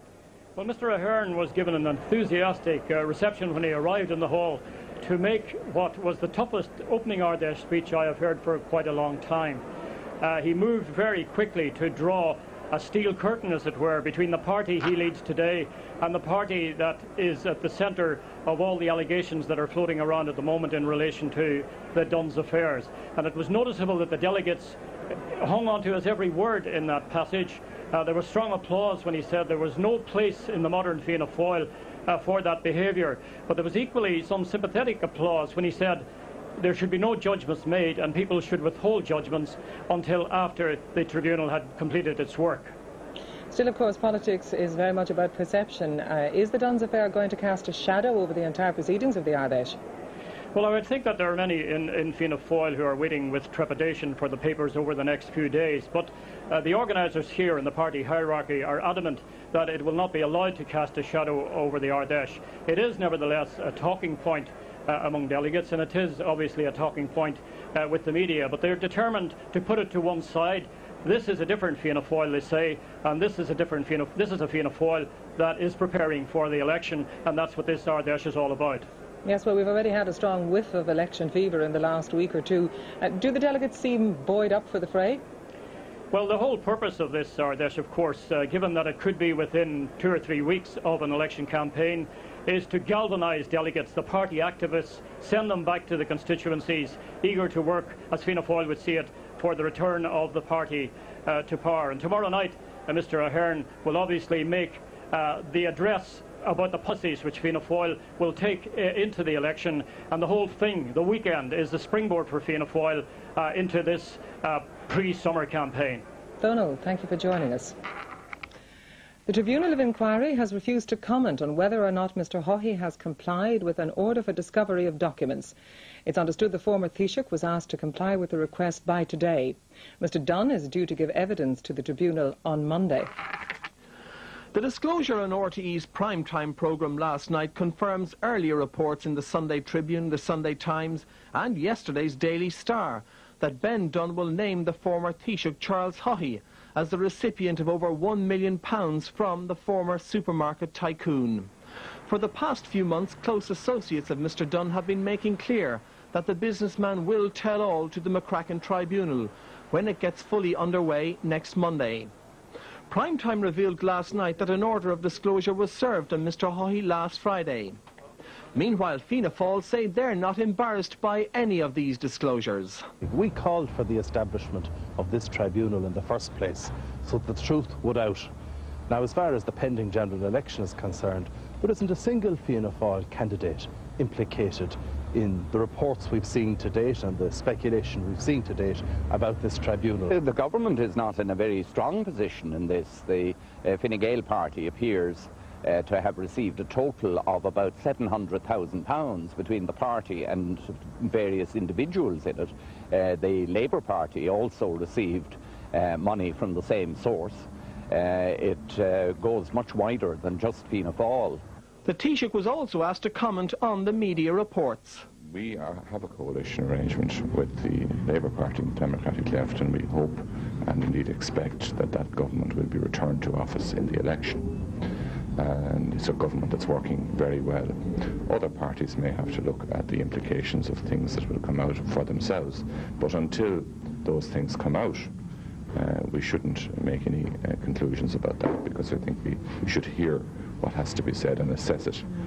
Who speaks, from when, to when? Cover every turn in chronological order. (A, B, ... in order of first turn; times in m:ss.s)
0:00.6-0:09.6 A
0:10.2-0:24.8 A
0:25.3-0:36.0 A
0:36.6-0:42.7 A
0:43.5-0:49.8 B
0:50.5-1:18.8 A
1:19.2-1:25.2 B
1:26.1-1:56.0 A
1:56.4-1:57.8 B
1:59.3-2:05.5 B
2:06.1-2:13.1 B
2:14.5-2:31.5 C
2:32.1-2:42.1 C
2:42.9-2:47.8 C
2:48.6-2:52.9 C
2:53.0-2:58.3 D
2:58.9-3:10.2 D
3:10.1-3:31.4 E
3:31.8-3:35.0 C
3:35.3-3:44.5 F
3:45.4-3:55.1 F
3:55.8-4:02.1 F